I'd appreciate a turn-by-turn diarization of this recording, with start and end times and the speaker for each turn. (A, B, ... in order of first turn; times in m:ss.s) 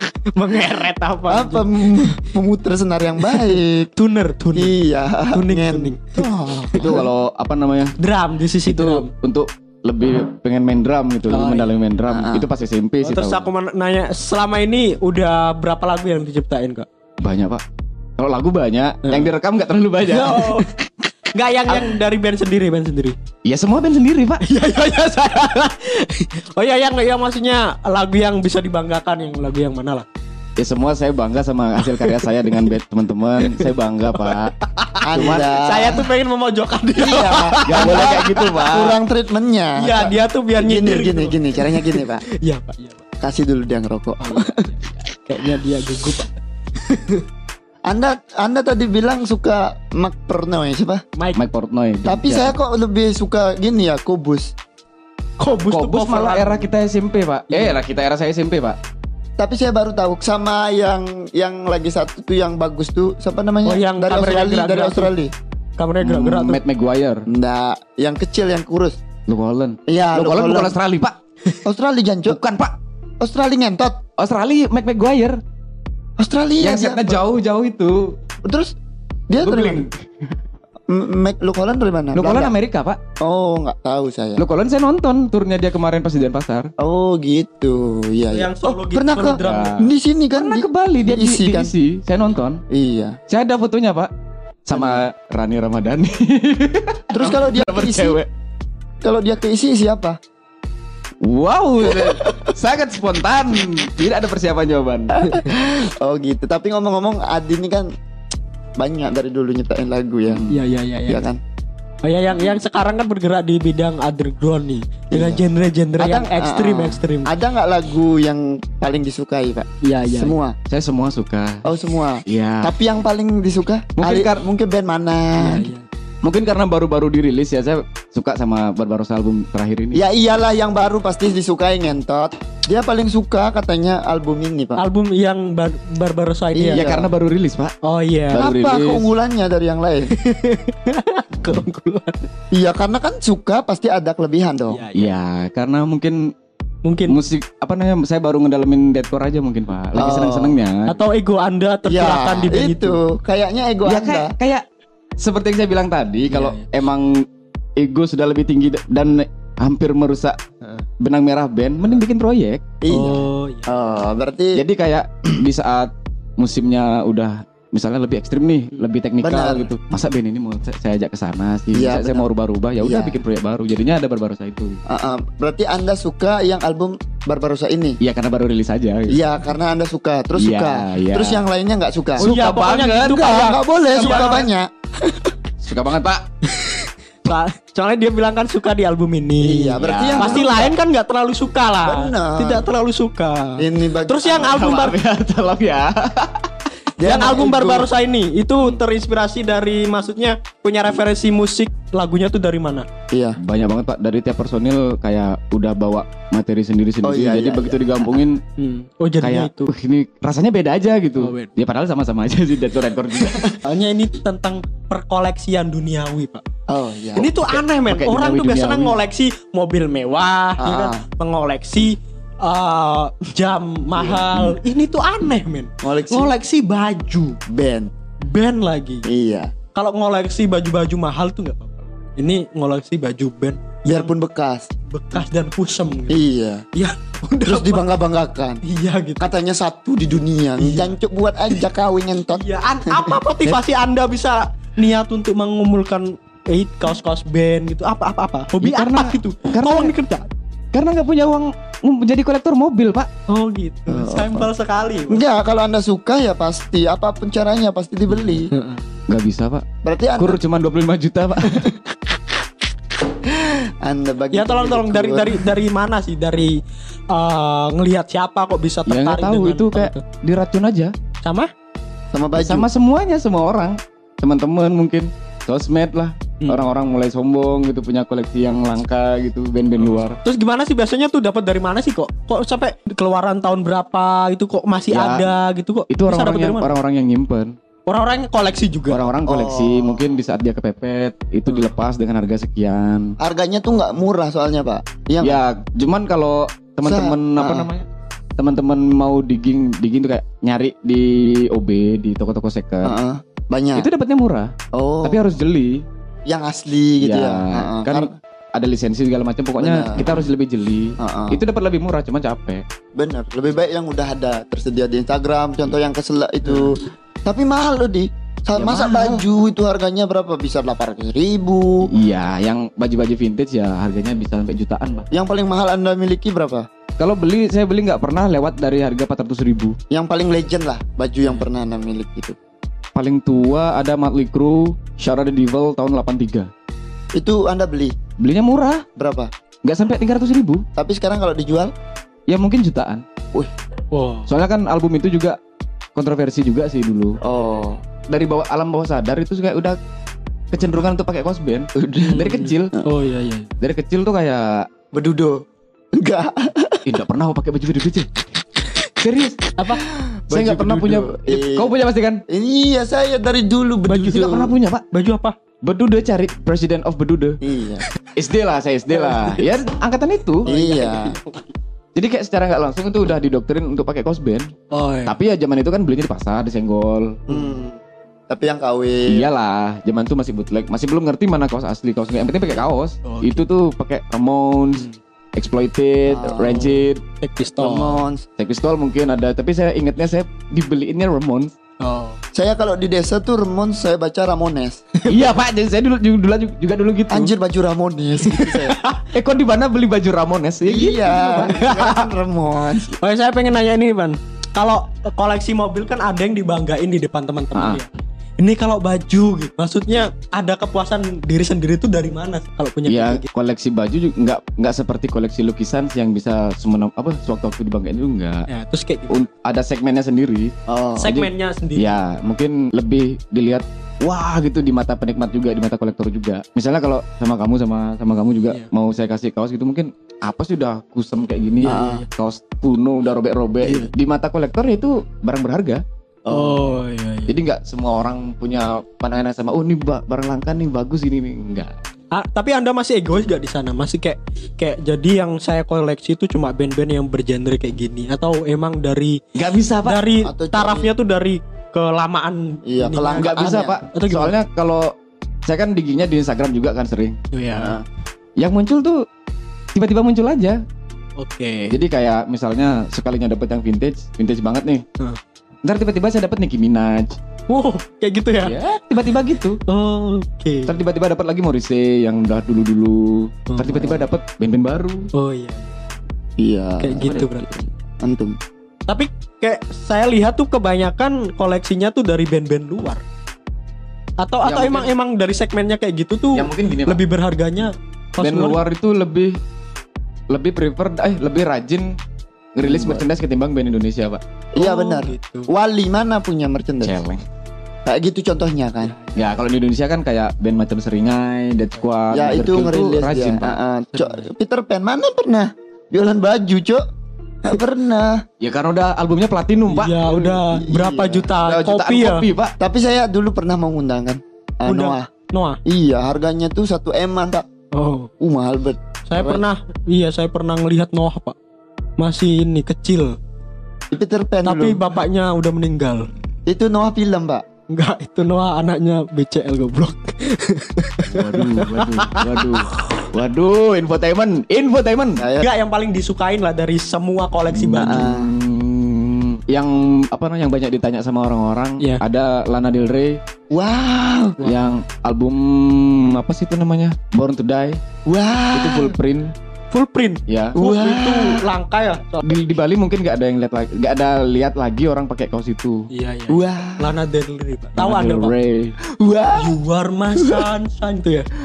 0:00.3-0:02.2 A
0:01.3-0:03.9 B
0:03.3-0:04.7 A
0:04.6-0:07.0 B
0:05.3-0:07.0 A
0:06.7-0:08.0 C
0:08.0-0:09.1 A
0:08.6-0:13.5 C
0:11.3-0:11.7 A
0:12.1-0:12.5 B
0:13.0-0:16.9 A
0:17.2-0:17.6 C
0:18.2-0:20.7 C
0:19.0-0:19.3 A
0:20.1-0:20.7 A
0:21.3-0:23.2 A
0:23.4-0:24.4 C
0:24.4-0:30.0 A
0:30.6-0:34.5 C
0:31.8-0:32.6 A
0:33.4-0:33.7 A
0:34.2-0:38.4 A
0:35.0-0:36.1 B
0:35.1-0:35.5 C
0:37.0-0:42.2 B
0:37.6-0:39.0 C
0:39.8-0:43.0 A
0:43.2-0:44.7 B
0:44.2-0:47.2 A
0:47.9-0:51.0 B
0:51.4-0:52.6 C
0:52.0-0:54.5 B
0:55.4-0:56.7 A
0:55.7-0:58.8 C
0:59.4-1:05.3 B
1:03.7-1:05.1 A
1:05.8-1:06.6 A
1:06.0-1:07.3 C
1:07.3-1:09.0 B
1:09.3-1:11.2 C
1:09.9-1:10.8 B
1:11.6-1:12.4 B
1:12.3-1:12.8 C
1:13.2-1:14.0 B
1:14.2-1:15.4 C
1:16.2-1:17.2 B
1:16.6-1:18.2 C
1:18.4-1:18.7 B
1:19.3-1:19.9 B
1:19.4-1:19.9 C
1:20.9-1:22.5 B
1:22.2-1:23.0 C
1:23.2-1:24.4 B
1:24.4-1:26.7 C
1:26.8-1:31.7 B
1:28.3-1:29.8 A
1:29.4-1:32.6 C
1:32.7-1:33.2 B
1:33.3-1:34.1 C
1:34.6-1:38.3 C
1:37.1-1:38.2 B
1:39.0-1:40.2 B
1:41.2-1:45.3 C
1:41.8-1:42.5 B
1:45.1-1:47.9 B
1:48.8-1:50.5 B
1:50.5-1:51.3 A
1:51.1-1:51.4 B
1:52.0-1:57.3 A
1:55.1-1:55.4 B
1:56.0-2:00.6 B
1:59.8-2:00.4 A
2:00.7-2:01.7 C
2:01.6-2:05.7 B
2:02.3-2:02.7 C
2:04.0-2:04.4 C
2:05.4-2:05.9 A
2:06.2-2:10.0 C
2:09.9-2:14.8 B
2:14.8-2:16.9 A
2:16.6-2:17.1 B
2:16.7-2:17.7 C
2:17.8-2:18.5 A
2:18.3-2:19.1 C
2:18.4-2:20.1 B
2:20.1-2:22.2 A
2:22.5-2:24.8 B
2:24.7-2:25.2 A
2:24.9-2:26.3 C
2:26.8-2:27.2 A
2:27.1-2:31.0 C
2:29.9-2:30.6 B
2:30.9-2:33.0 A
2:31.8-2:34.3 B
2:33.8-2:34.6 C
2:35.2-2:37.3 C
2:36.3-2:36.6 A
2:37.8-2:40.4 C
2:41.0-2:42.6 C
2:42.8-2:44.6 B
2:42.9-2:43.8 A
2:44.5-2:54.8 C
2:49.2-2:49.7 B
2:51.7-2:52.3 B
2:52.8-2:53.2 B
2:54.9-2:58.0 B
2:58.0-2:59.2 C
2:59.1-3:02.3 B
3:00.4-3:01.4 C
3:02.2-3:03.3 C
3:02.2-3:04.5 A
3:03.0-3:05.3 B
3:03.9-3:04.4 C
3:05.6-3:06.3 C
3:06.5-3:15.0 A
3:09.4-3:10.8 B
3:09.8-3:10.4 C
3:11.8-3:12.7 B
3:13.6-3:14.7 B
3:14.4-3:16.5 C
3:17.0-3:17.9 B
3:17.0-3:22.9 A
3:23.1-3:23.4 B
3:23.4-3:28.4 C
3:27.0-3:28.2 B
3:28.6-3:29.7 A
3:29.2-3:33.6 C
3:31.2-3:31.5 A
3:33.6-3:36.4 A
3:36.7-3:37.3 B
3:37.2-3:47.4 A
3:37.5-3:39.0 C
3:40.6-3:41.0 B
3:44.0-3:44.6 B
3:45.8-3:46.3 B
3:47.5-3:47.9 B
3:48.2-3:49.0 A
3:49.0-3:49.5 B
3:49.7-3:54.1 A
3:53.9-3:54.7 B
3:54.9-3:57.9 A
3:56.1-3:56.6 B
3:57.5-3:58.6 B
3:58.6-3:59.3 A
3:59.2-4:03.2 B
4:00.6-4:00.9 A
4:02.3-4:10.3 A
4:08.6-4:09.9 C
4:10.7-4:13.1 C
4:13.3-4:15.2 A
4:13.9-4:14.5 B
4:15.1-4:18.5 B
4:18.5-4:18.8 A
4:19.1-4:19.6 C
4:19.8-4:20.4 B
4:20.2-4:21.7 C
4:23.2-4:25.5 B
4:24.3-4:26.6 A
4:27.1-4:30.0 A
4:28.9-4:30.9 C
4:31.2-4:31.5 A
4:32.1-4:32.7 B
4:32.4-4:40.2 C
4:36.4-4:36.7 A
4:40.2-4:46.7 A
4:44.9-4:45.2 C
4:45.9-4:47.6 C
4:47.9-4:49.1 A
4:48.9-4:53.2 C
4:49.3-4:50.0 B
4:53.2-4:55.4 B
4:55.2-4:57.9 C
4:56.8-4:57.7 B
4:58.4-5:02.9 C
5:02.8-5:03.9 B
5:03.8-5:05.8 C
5:04.7-5:05.2 B
5:06.3-5:08.1 B
5:07.0-5:12.6 C
5:09.6-5:10.1 B
5:11.0-5:11.4 B
5:13.0-5:21.9 B
5:18.6-5:19.2 C
5:21.9-5:25.1 C
5:25.1-5:26.7 B
5:27.0-5:29.8 C
5:29.9-5:32.4 B
5:33.0-5:36.5 C
5:37.1-5:38.0 B
5:38.2-5:38.8 C
5:39.0-5:39.3 B
5:39.6-5:40.6 C
5:40.8-5:41.7 B
5:42.3-5:43.0 C
5:43.9-5:44.3 A
5:44.3-5:45.4 C
5:46.0-5:47.2 C
5:47.2-5:47.8 B
5:48.1-5:49.8 C
5:50.5-5:52.7 C
5:51.8-5:52.3 B
5:52.0-5:53.5 A
5:53.6-5:54.7 C
5:54.9-5:55.4 B
5:55.9-5:56.8 B
5:56.9-5:58.1 C
5:59.0-5:59.6 C
5:59.6-5:59.8 A
6:00.0-6:01.7 B
6:00.3-6:02.2 C
6:02.3-6:04.5 B
6:03.9-6:05.3 A
6:04.1-6:04.8 C
6:05.6-6:07.4 C
6:07.4-6:07.8 B
6:08.2-6:10.5 C
6:09.0-6:09.4 A
6:10.5-6:11.2 B
6:10.5-6:11.4 A
6:12.0-6:14.5 C
6:14.7-6:15.1 A
6:15.1-6:17.2 C
6:17.3-6:17.8 B
6:18.3-6:19.3 B
6:19.1-6:27.0 C
6:23.0-6:23.4 A
6:26.1-6:26.6 B
6:26.4-6:28.0 A
6:27.6-6:28.3 B
6:28.4-6:31.5 C
6:31.8-6:32.2 A
6:32.4-6:34.8 B
6:35.1-6:37.3 C
6:37.1-6:38.8 B
6:38.2-6:38.8 A
6:38.9-6:41.8 C
6:40.6-6:43.0 B
6:41.3-6:41.9 A
6:43.0-6:47.9 A
6:47.6-6:47.8 C
6:48.4-6:53.3 A
6:52.9-6:58.5 C
6:58.5-6:59.2 A
6:59.1-7:15.8 C
7:00.7-7:01.2 B
7:01.0-7:02.0 A
7:11.6-7:12.1 A
7:11.6-7:12.0 B
7:13.6-7:13.9 A
7:16.3-7:16.6 B
7:16.3-7:17.3 A
7:17.3-7:21.7 C
7:22.1-7:29.2 A
7:29.4-7:30.0 C
7:29.8-7:34.3 A
7:30.2-7:30.9 B
7:32.6-7:33.8 B
7:33.2-7:35.0 C
7:35.5-7:37.7 C
7:37.3-7:37.8 A
7:38.4-7:39.0 C
7:39.7-7:40.6 C
7:41.2-7:41.8 A
7:41.7-7:44.8 C
7:45.6-7:47.2 C
7:47.5-7:48.6 A
7:48.4-7:49.6 C
7:49.7-7:50.7 A
7:50.7-7:55.1 C
7:53.5-7:54.0 A
7:55.1-7:55.8 A
7:56.4-7:58.4 B
7:56.8-7:57.5 A
7:58.9-8:03.0 A
8:04.2-8:08.6 A
8:04.4-8:04.9 C
8:06.3-8:07.0 C
8:08.2-8:09.4 C
8:10.3-8:12.0 C
8:12.6-8:14.2 C
8:12.6-8:13.0 B
8:14.5-8:17.0 B
8:14.6-8:15.5 A
8:16.8-8:17.2 C
8:17.8-8:19.0 B
8:18.8-8:19.4 A
8:19.1-8:23.6 C
8:22.1-8:26.8 B
8:23.9-8:24.2 A
8:27.4-8:28.2 B
8:28.4-8:30.4 C
8:29.7-8:32.3 A
8:30.5-8:31.3 B
8:31.4-8:32.6 C
8:32.6-8:35.1 B
8:34.7-8:35.6 A
8:35.6-8:37.5 B
8:37.7-8:38.1 A
8:38.2-8:39.4 B
8:39.1-8:41.4 A
8:42.0-8:43.2 A
8:43.9-8:44.8 B
8:44.4-8:46.1 A
8:46.5-8:47.4 B
8:47.7-8:53.1 A
8:51.1-8:55.2 C
8:55.2-8:55.5 B
8:55.4-8:58.1 A
8:57.5-9:03.2 C
8:57.8-8:58.3 B
9:03.5-9:04.4 B
9:04.4-9:07.8 C
9:08.0-9:09.0 B
9:08.5-9:09.3 C
9:09.7-9:12.4 A
9:10.3-9:10.6 C
9:10.6-9:11.5 B
9:12.2-9:15.9 C
9:15.9-9:18.3 A
9:16.3-9:16.9 B
9:17.8-9:18.8 C
9:18.9-9:19.6 B
9:19.4-9:21.3 A
9:20.2-9:20.5 B